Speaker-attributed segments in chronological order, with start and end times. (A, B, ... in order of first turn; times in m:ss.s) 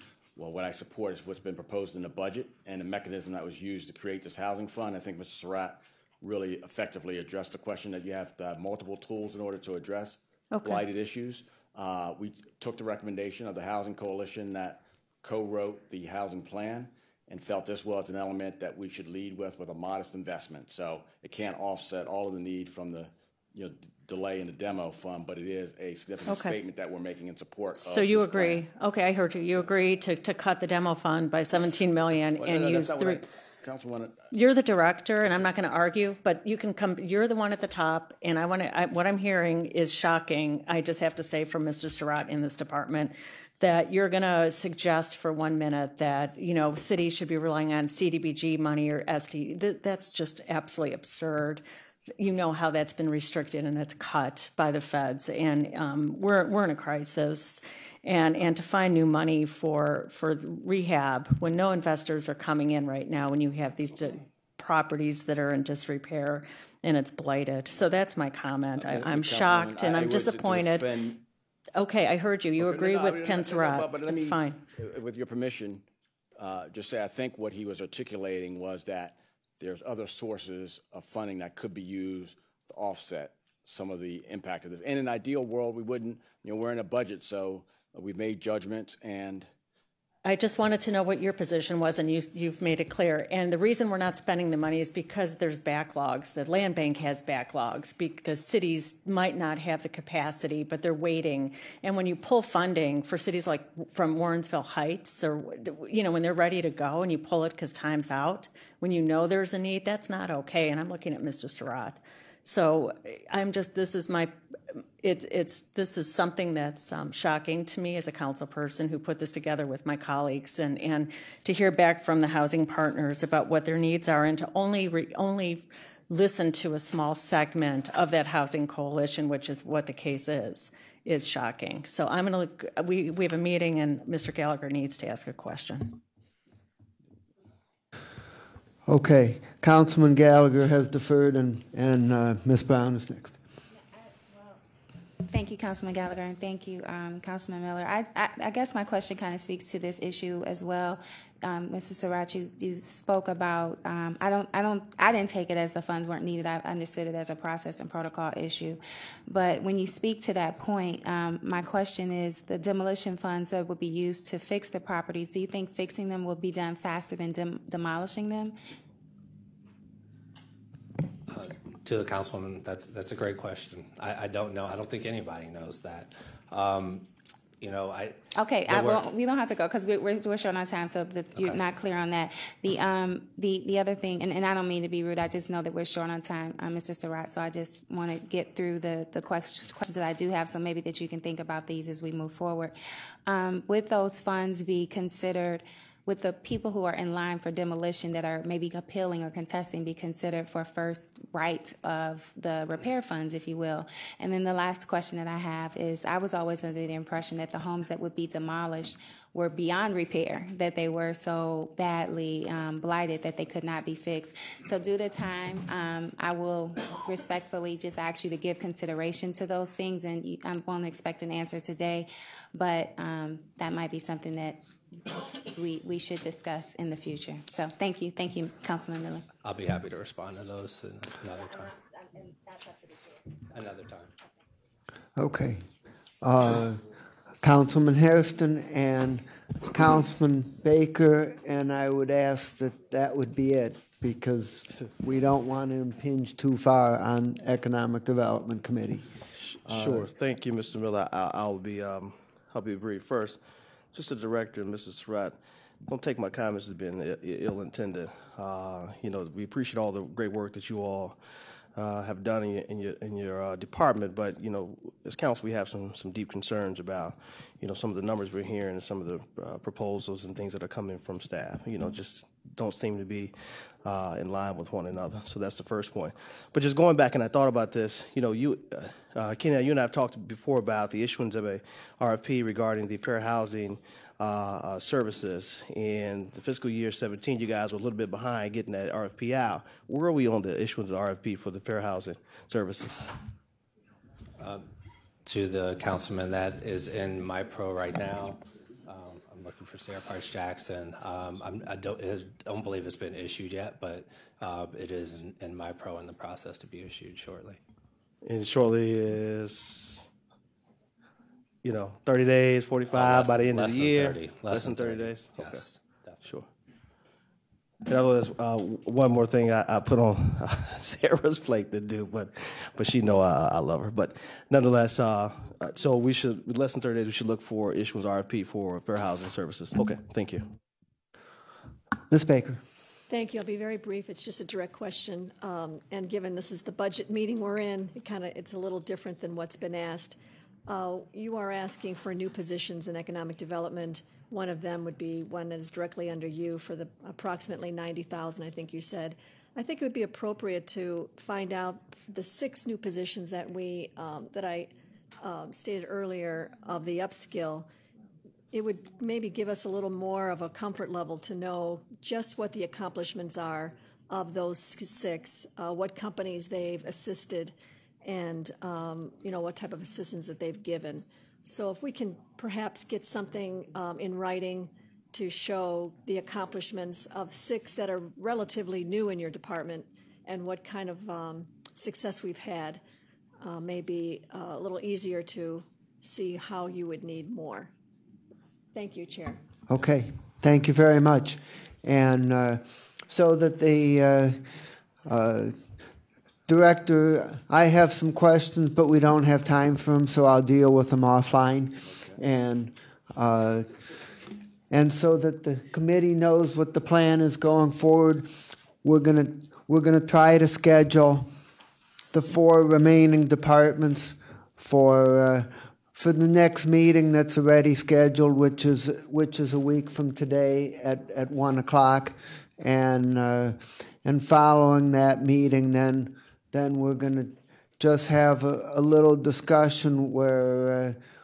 0:00.4-0:28.7 A
0:10.5-0:10.9 B
0:26.3-0:26.6 B
0:27.8-0:33.3 B
0:32.4-0:34.3 A
0:34.3-0:51.6 B
0:52.2-1:11.0 B
1:08.7-1:11.2 A
1:11.8-1:14.6 B
1:12.6-1:15.8 A
1:16.4-1:29.5 A
1:30.2-2:16.0 B
2:18.9-2:23.4 C
2:25.3-2:48.6 D
2:51.3-2:57.1 E
2:57.6-2:59.0 E
2:58.4-3:12.7 D
3:01.4-3:01.7 E
3:13.3-3:44.6 D
3:45.5-3:49.2 D
3:49.4-3:51.7 E
3:53.5-3:54.1 E
3:55.2-3:55.7 C
3:56.2-3:56.9 C
3:57.4-4:10.1 C
4:09.4-4:13.4 F
4:13.9-4:21.2 F
4:21.8-4:53.1 F
4:54.4-4:54.7 E
4:55.2-5:07.6 E
5:08.2-5:10.1 F
5:11.6-5:16.5 F
5:12.9-5:16.2 E
5:17.9-5:30.5 F
5:32.1-5:32.6 C
5:33.1-5:40.2 G
5:40.7-5:54.7 G
5:55.2-5:57.7 G
5:58.5-6:22.8 G
6:23.4-6:27.7 G
6:28.7-6:29.4 G
6:29.7-6:35.8 C
6:36.5-6:44.1 C
6:44.7-6:51.3 C
6:52.1-7:11.0 C